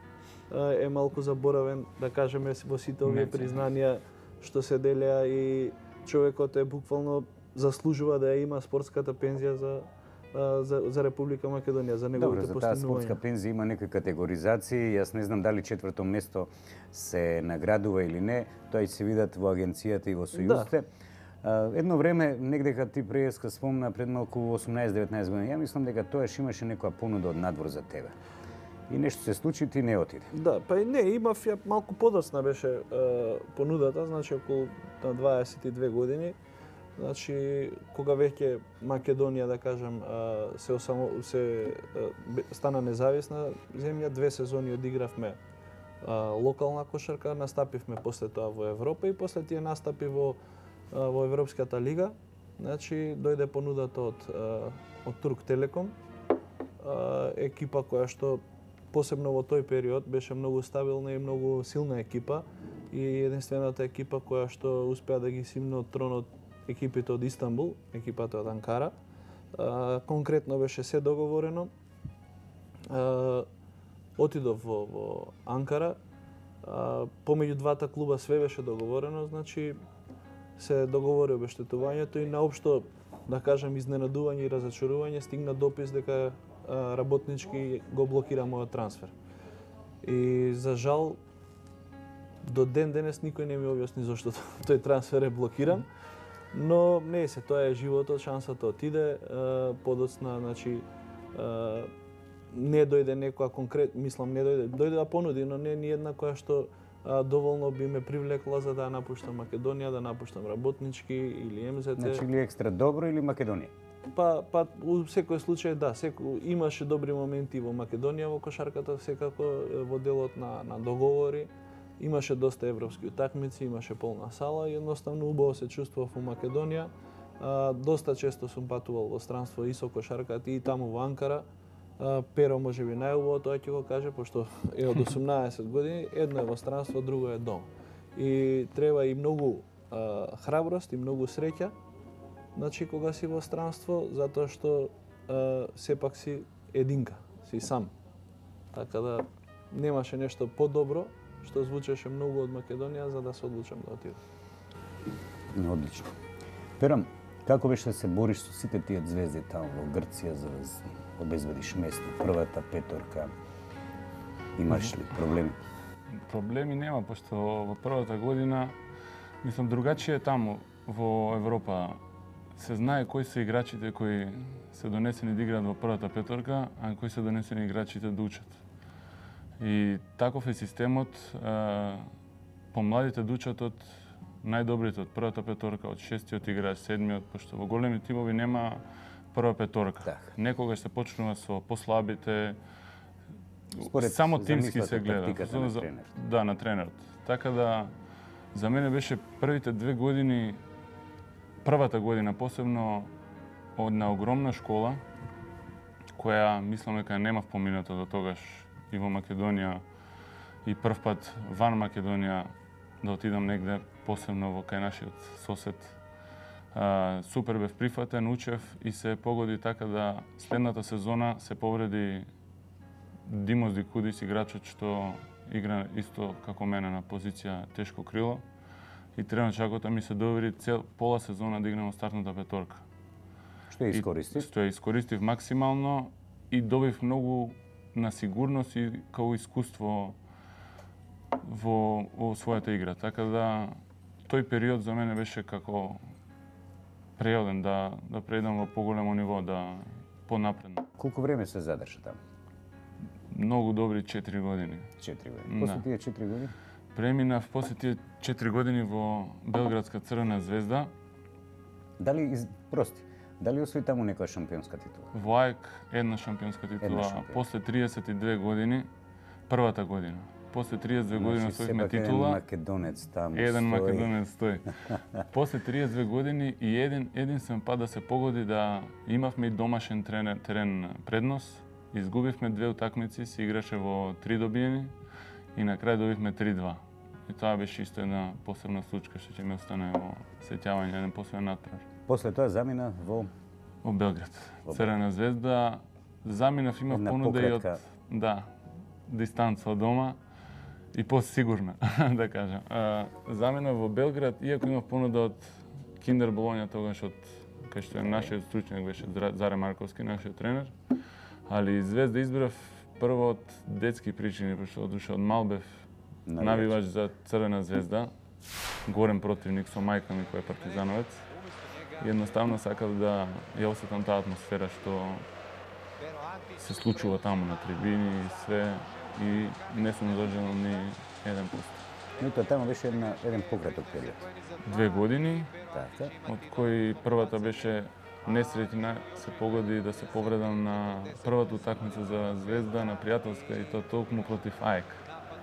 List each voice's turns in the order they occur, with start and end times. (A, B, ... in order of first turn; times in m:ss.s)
0:00.5-0:13.2 A
0:03.0-0:03.6 B
0:12.2-0:20.9 C
0:20.3-0:20.7 A
0:21.4-0:28.2 C
0:28.9-0:30.3 C
0:30.3-0:36.4 A
0:37.0-0:45.4 A
0:46.0-0:50.4 A
0:50.9-0:56.0 A
0:56.8-1:09.0 A
1:09.5-1:11.7 A
1:12.9-1:13.5 A
1:14.2-1:16.0 A
1:16.6-1:19.8 A
1:20.6-1:29.1 A
1:30.0-1:31.2 A
1:32.4-1:35.9 A
1:36.5-1:41.9 A
1:42.5-1:52.3 A
1:52.0-1:53.7 C
1:54.1-2:11.5 A
2:12.0-2:21.7 A
2:22.6-2:27.9 A
2:28.7-2:34.2 A
2:35.5-2:36.1 C
2:36.8-2:43.3 C
2:44.6-2:45.6 C
2:46.1-2:48.8 B
2:49.4-2:52.0 B
2:52.6-2:58.5 B
2:59.6-3:02.1 B
3:02.7-3:12.6 B
3:10.0-3:10.3 C
3:13.7-3:17.9 B
3:13.8-3:16.1 C
3:18.5-3:20.6 B
3:21.6-3:23.1 B
3:23.8-3:25.0 B
3:26.2-3:29.8 B
3:30.6-3:36.0 B
3:36.7-3:42.3 B
3:43.3-3:48.4 B
3:49.2-3:52.8 B
3:53.7-3:54.5 C
3:53.9-4:00.2 B
4:01.4-4:06.0 B
4:07.2-4:10.8 B
4:11.0-4:12.2 C
4:13.3-4:14.9 B
4:15.0-4:16.5 C
4:15.5-4:15.8 B
4:16.9-4:20.9 B
4:22.0-4:25.1 C
4:25.1-4:28.9 B
4:26.8-4:27.4 C
4:29.5-4:32.4 B
4:31.1-4:34.1 C
4:33.3-4:44.9 B
4:45.6-4:51.9 B
4:52.1-4:53.3 C
4:53.8-4:58.5 B
4:56.9-4:57.8 C
4:59.1-5:00.2 B
5:00.9-5:10.7 B
5:08.0-5:08.3 C
5:11.5-5:15.7 B
5:16.3-5:16.8 C
5:16.4-5:18.1 B
5:18.9-5:21.3 B
5:22.0-5:25.3 B
5:26.6-5:31.8 B
5:32.2-5:34.3 C
5:34.6-5:35.7 B
5:35.7-5:36.2 C
5:36.2-5:45.0 B